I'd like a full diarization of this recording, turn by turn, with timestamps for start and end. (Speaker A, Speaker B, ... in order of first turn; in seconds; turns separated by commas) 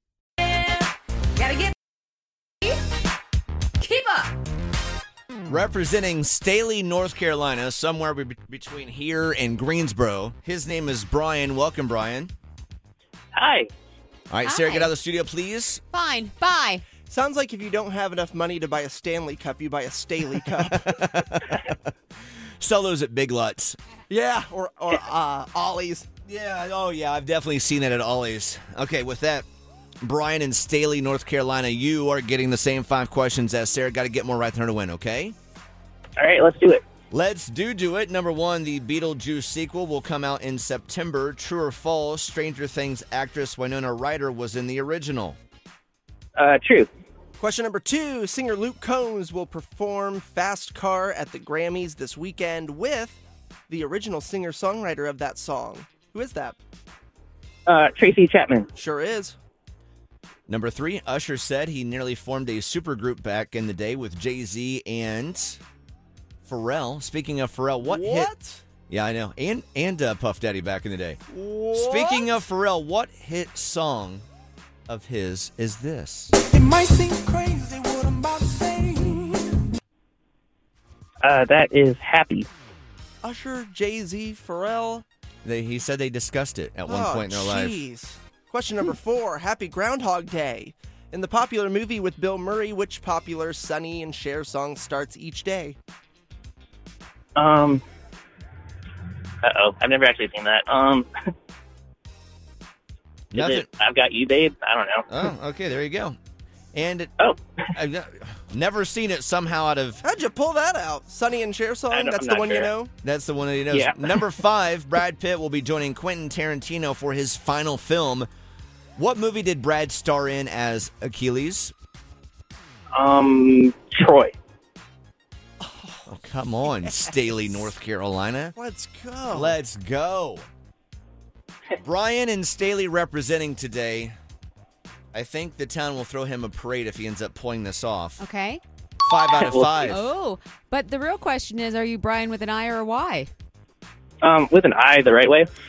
Speaker A: 1.4-1.7, Speaker A: 3.8-4.3, Speaker B: 5.5-12.3, Speaker C: 13.3-13.7, Speaker B: 14.3-15.8, Speaker A: 14.4-14.9, Speaker A: 15.9-16.9, Speaker D: 17.1-21.0, Speaker B: 20.9-21.8, Speaker B: 22.6-23.8, Speaker D: 24.1-26.1, Speaker B: 26.3-29.5, Speaker B: 30.0-35.4, Speaker C: 36.2-36.8, Speaker B: 37.1-45.4, Speaker C: 46.4-46.9, Speaker D: 47.4-56.6, Speaker C: 57.7-58.7, Speaker D: 58.8-59.4, Speaker B: 60.5-65.6, Speaker B: 66.5-68.3, Speaker D: 67.8-68.6, Speaker B: 68.9-71.2, Speaker D: 71.3-72.4, Speaker B: 71.7-74.3, Speaker B: 74.9-76.3, Speaker E: 76.5-79.4, Speaker D: 78.7-79.0, Speaker C: 81.2-82.5, Speaker D: 83.2-85.0, Speaker B: 85.4-87.8, Speaker D: 86.9-95.8, Speaker C: 97.4-97.8, Speaker C: 99.4-101.1, Speaker B: 103.3-103.7, Speaker C: 103.3-105.1, Speaker B: 105.1-106.2, Speaker B: 106.7-107.1, Speaker B: 107.7-110.0, Speaker D: 110.0-112.9, Speaker C: 111.9-112.7, Speaker B: 113.0-118.3, Speaker C: 113.7-114.2, Speaker B: 119.0-121.7, Speaker C: 123.0-124.3, Speaker D: 125.6-126.1, Speaker B: 126.1-128.6, Speaker D: 126.7-127.1, Speaker D: 128.6-129.6, Speaker B: 129.3-130.4, Speaker B: 131.8-134.2, Speaker B: 135.1-138.2, Speaker A: 138.2-138.6, Speaker B: 139.1-140.1, Speaker C: 139.3-140.0, Speaker A: 139.9-143.3, Speaker C: 144.2-145.5